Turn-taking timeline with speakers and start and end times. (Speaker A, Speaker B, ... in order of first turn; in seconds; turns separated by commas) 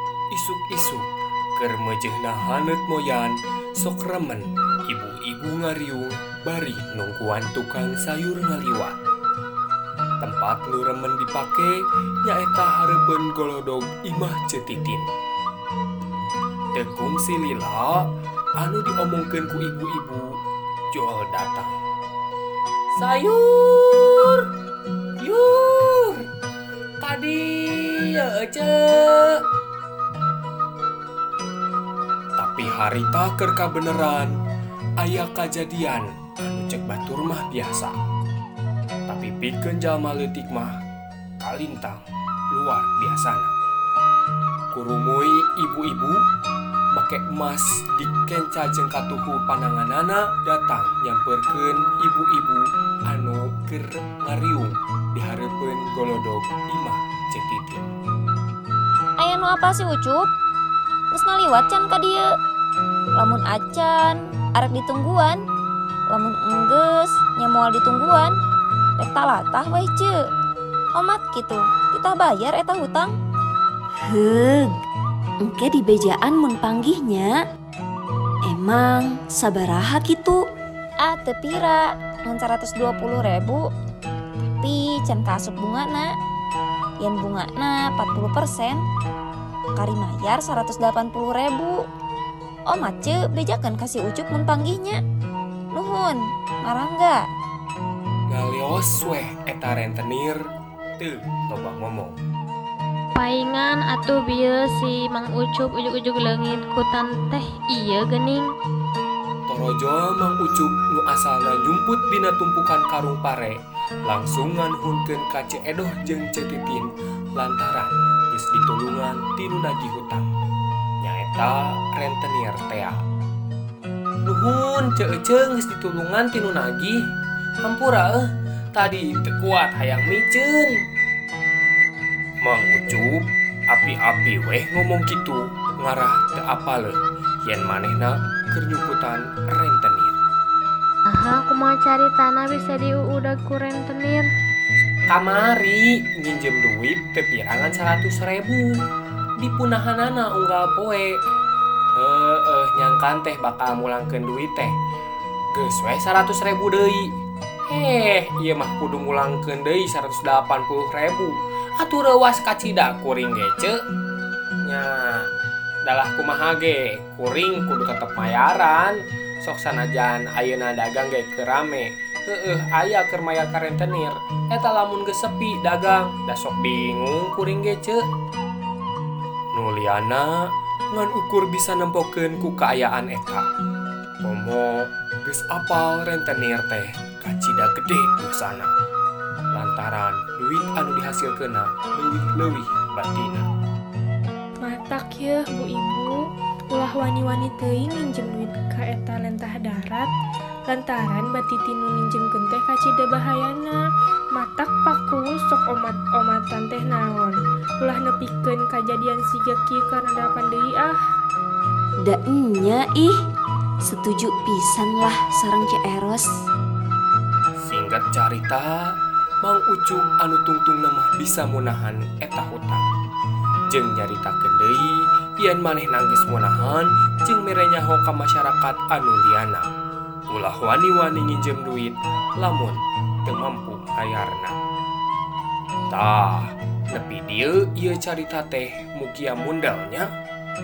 Speaker A: 0.3-8.9, Speaker A: 10.2-15.1, Speaker A: 16.7-20.4, Speaker A: 20.9-21.8, Speaker A: 22.9-24.5, Speaker A: 25.2-26.2, Speaker A: 27.0-29.4, Speaker A: 32.4-34.3, Speaker A: 35.0-38.0, Speaker A: 39.1-40.8, Speaker A: 41.4-42.0, Speaker A: 42.5-43.5, Speaker A: 44.7-46.2, Speaker A: 46.9-57.9, Speaker B: 59.2-60.3, Speaker B: 61.1-62.3, Speaker B: 63.2-65.4, Speaker B: 66.1-68.4, Speaker B: 69.0-70.1, Speaker B: 71.0-73.2, Speaker C: 74.1-74.8, Speaker C: 75.4-77.4, Speaker C: 78.5-80.4, Speaker B: 81.0-83.6, Speaker B: 84.6-86.1, Speaker B: 87.0-88.8, Speaker B: 89.8-91.8, Speaker B: 92.7-95.0, Speaker B: 95.7-97.2, Speaker A: 98.3-100.5, Speaker A: 101.0-102.2, Speaker D: 103.2-108.5, Speaker A: 109.5-120.3, Speaker A: 121.0-123.0, Speaker A: 124.2-127.0, Speaker A: 127.6-130.8, Speaker A: 132.4-140.2, Speaker D: 141.1-144.3, Speaker A: 145.1-148.8, Speaker A: 149.4-151.2, Speaker A: 151.9-154.8, Speaker A: 155.5-163.8, Speaker A: 164.6-165.3, Speaker A: 165.8-178.0, Speaker A: 179.5-180.4, Speaker A: 180.9-183.5, Speaker A: 184.2-188.7, Speaker A: 189.5-193.5, Speaker E: 194.6-196.1, Speaker E: 196.7-200.1, Speaker E: 200.7-203.8, Speaker E: 204.3-211.0, Speaker C: 212.0-213.2, Speaker C: 213.8-216.3, Speaker A: 217.6-222.9, Speaker A: 223.7-229.7, Speaker A: 230.3-234.6, Speaker A: 235.9-240.1